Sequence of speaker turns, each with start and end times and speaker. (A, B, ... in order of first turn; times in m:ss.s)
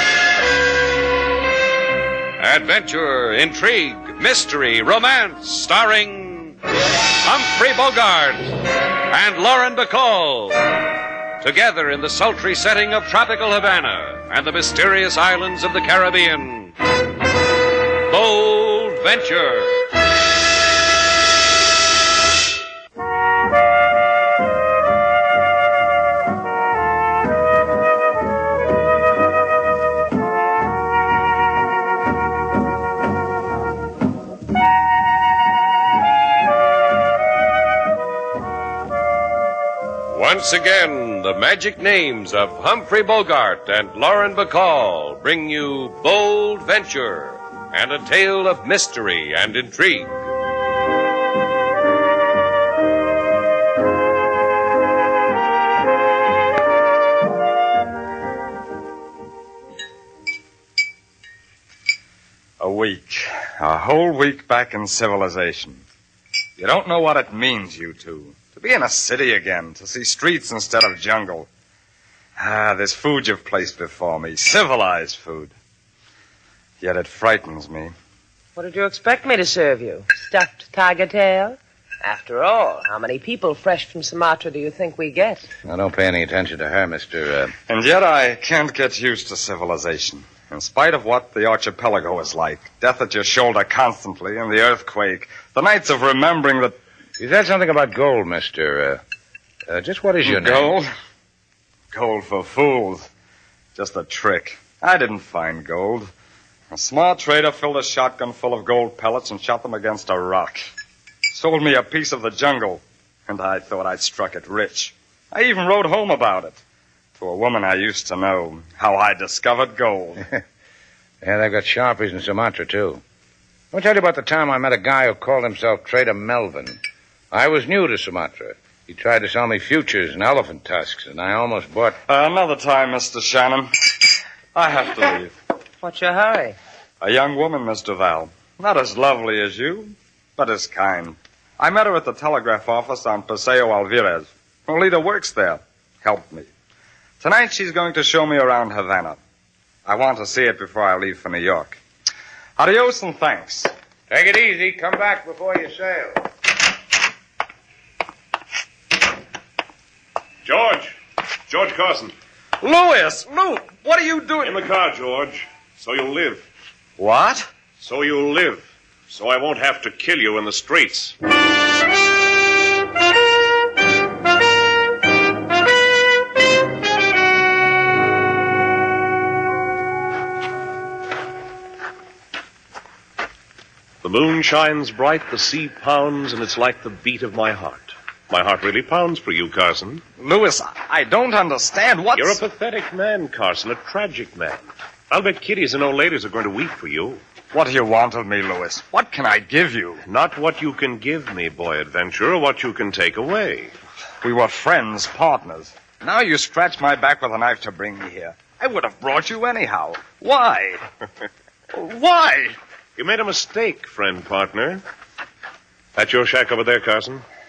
0:02.4-0:06.5 A
0:07.2-0:08.5 A
0:09.1-0:10.6 A
0:11.4-0:16.7 A
0:18.1-0:19.8 A
0:40.1-0:50.1 A
1:02.6-1:05.8 B
1:06.6-1:11.5 B
1:12.4-1:15.5 B
1:16.8-1:17.9 B
1:18.6-1:25.5 C
1:25.6-1:27.5 D
1:27.7-1:36.8 B
1:37.2-1:39.0 D
1:39.7-1:40.8 D
1:40.2-1:40.9 B
1:41.9-1:43.1 B
1:43.7-1:46.1 B
1:46.7-1:50.7 B
1:51.3-1:56.6 B
1:57.2-2:00.3 B
2:01.2-2:03.0 D
2:03.7-2:06.8 D
2:07.3-2:12.0 D
2:12.1-2:13.7 B
2:14.5-2:15.3 B
2:15.8-2:16.6 C
2:17.0-2:26.5 B
2:27.2-2:29.2 B
2:29.8-2:31.8 B
2:32.6-2:33.7 B
2:34.1-2:36.3 D
2:40.4-2:40.9 E
2:41.5-2:42.1 E
2:42.6-2:43.0 B
2:43.9-2:44.5 B
2:44.4-2:46.4 E
2:47.8-2:51.2 E
3:04.0-3:10.0 E
3:10.2-3:12.4 B
3:12.2-3:17.2 E
3:17.5-3:20.0 B
3:20.0-3:23.7 E
3:24.2-3:30.8 B
3:31.7-3:32.5 B
3:33.0-3:34.8 E
3:35.9-3:37.2 E